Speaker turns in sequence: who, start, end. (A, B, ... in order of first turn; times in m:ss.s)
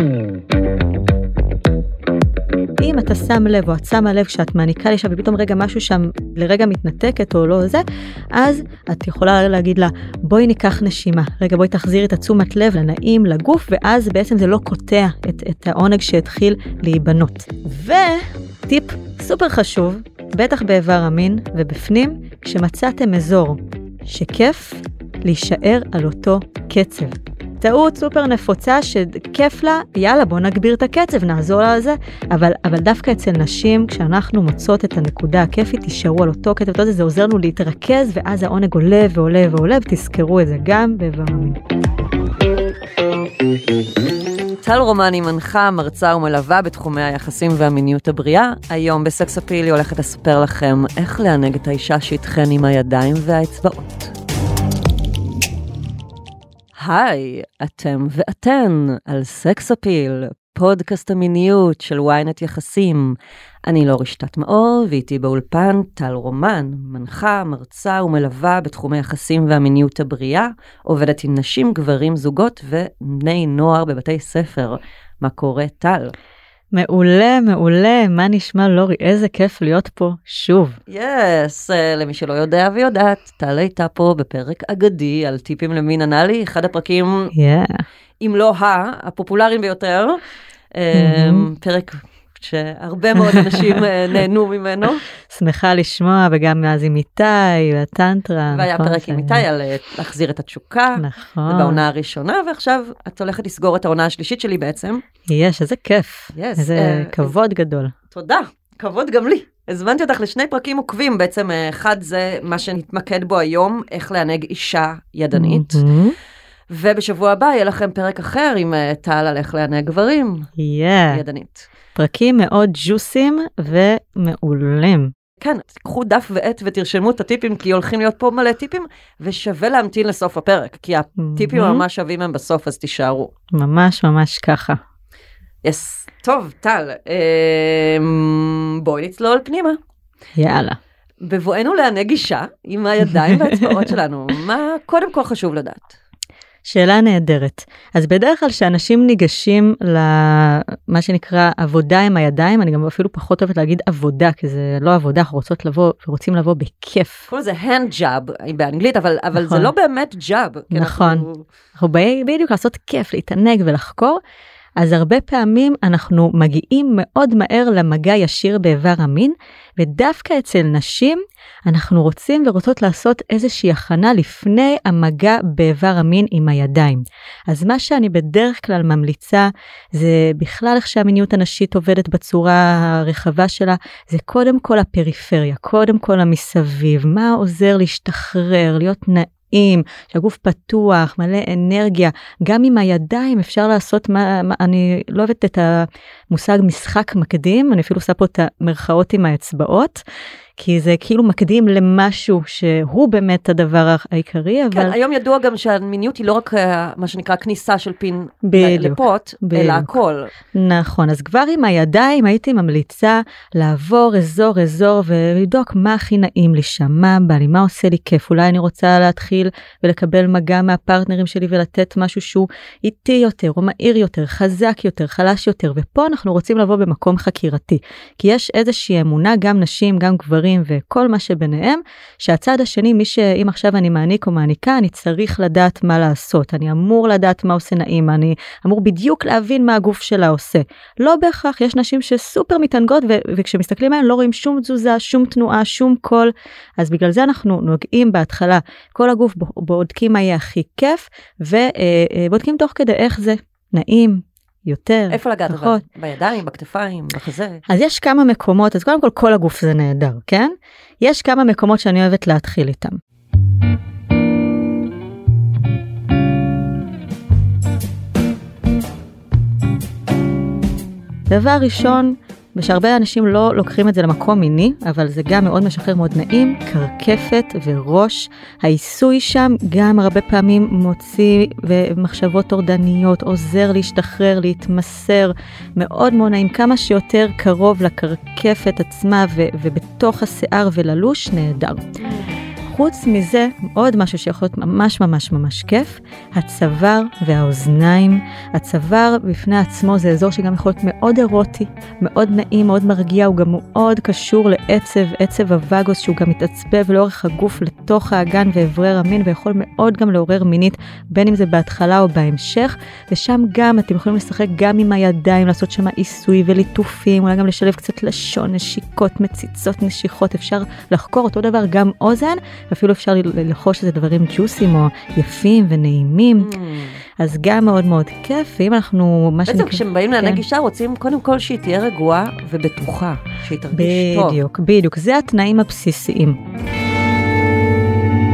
0:02.8-0:41.6 A
0:44.6-0:54.1 B
0:56.8-1:16.1 B
1:16.7-1:20.8 A
1:20.9-1:27.3 B
1:27.4-1:27.8 A
1:28.2-1:30.2 B
1:30.7-1:35.0 B
1:30.9-1:31.5 A
1:33.2-1:33.8 A
1:35.3-1:39.4 A
1:38.5-1:45.0 B
1:41.0-1:41.8 A
1:45.3-1:47.9 A
1:46.3-1:47.3 B
1:48.1-1:55.8 B
1:55.4-1:56.2 A
1:56.7-2:00.5 B
2:00.6-2:01.2 A
2:01.1-2:01.7 B
2:02.0-2:05.1 A
2:05.4-2:13.3 B
2:11.2-2:11.8 A
2:13.5-2:14.8 A
2:15.6-2:19.8 B
2:20.4-2:20.8 A
2:21.2-2:26.0 B
2:23.2-2:23.8 A
2:26.6-2:37.3 A
2:37.3-2:41.4 B
2:39.4-2:39.7 A
2:40.7-2:44.2 A
2:44.8-3:20.0 A
3:20.6-3:25.0 A
3:24.7-3:30.3 B
3:28.4-3:30.0 A
3:30.5-4:15.8 A
4:15.1-4:17.6 B
4:17.7-4:23.0 A
4:31.3-4:52.0 A
4:52.0-4:52.3 B
4:52.6-5:26.5 A
5:26.4-5:27.0 B
5:27.2-5:30.4 A
5:29.5-5:34.4 B
5:33.7-5:36.4 A